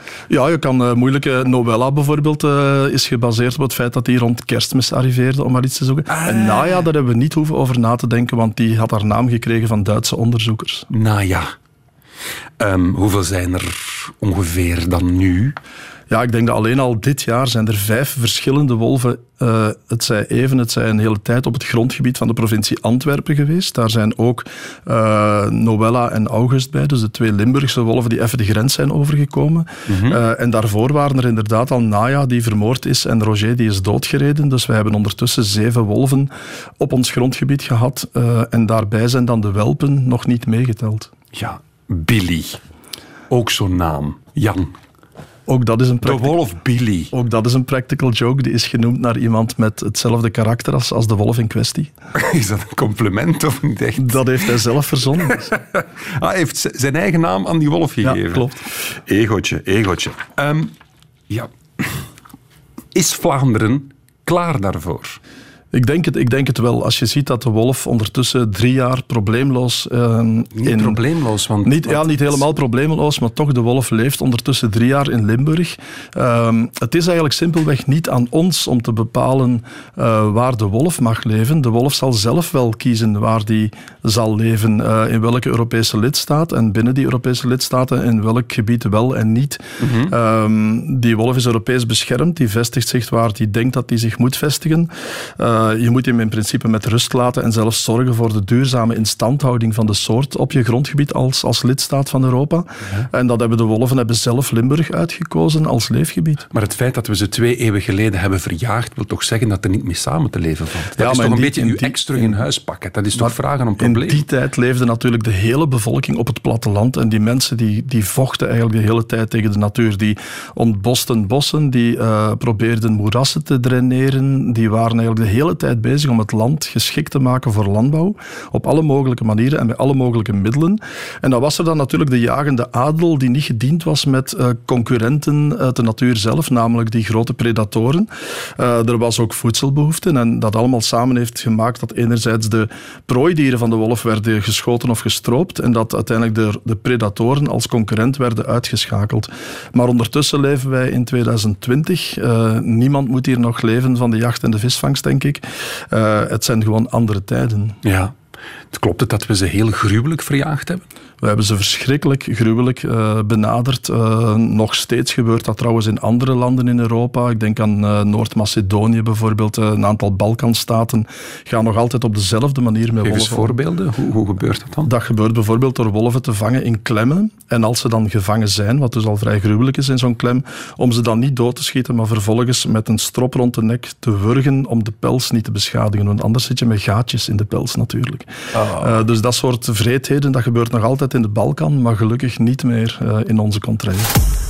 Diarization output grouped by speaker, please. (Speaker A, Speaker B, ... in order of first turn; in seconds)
Speaker A: 0.3-10.9, 16.1-41.1, 45.5-46.4, 47.1-51.9, 54.0-55.5, 58.0-58.6, 65.7-71.0, 71.6-106.4, 111.0-112.4, 113.2-157.8, 161.2-173.6, 174.8-194.1
Speaker B: 6.1-6.9, 10.9-11.5, 12.6-15.6, 29.9-30.2, 41.3-42.6, 43.3-44.8, 46.0-47.1, 52.1-54.6, 55.2-60.7, 61.3-62.0, 62.9-65.2, 70.5-72.5, 89.8-90.1, 106.5-114.2, 157.8-158.2, 158.7-160.8, 173.0-174.9, 188.5-189.0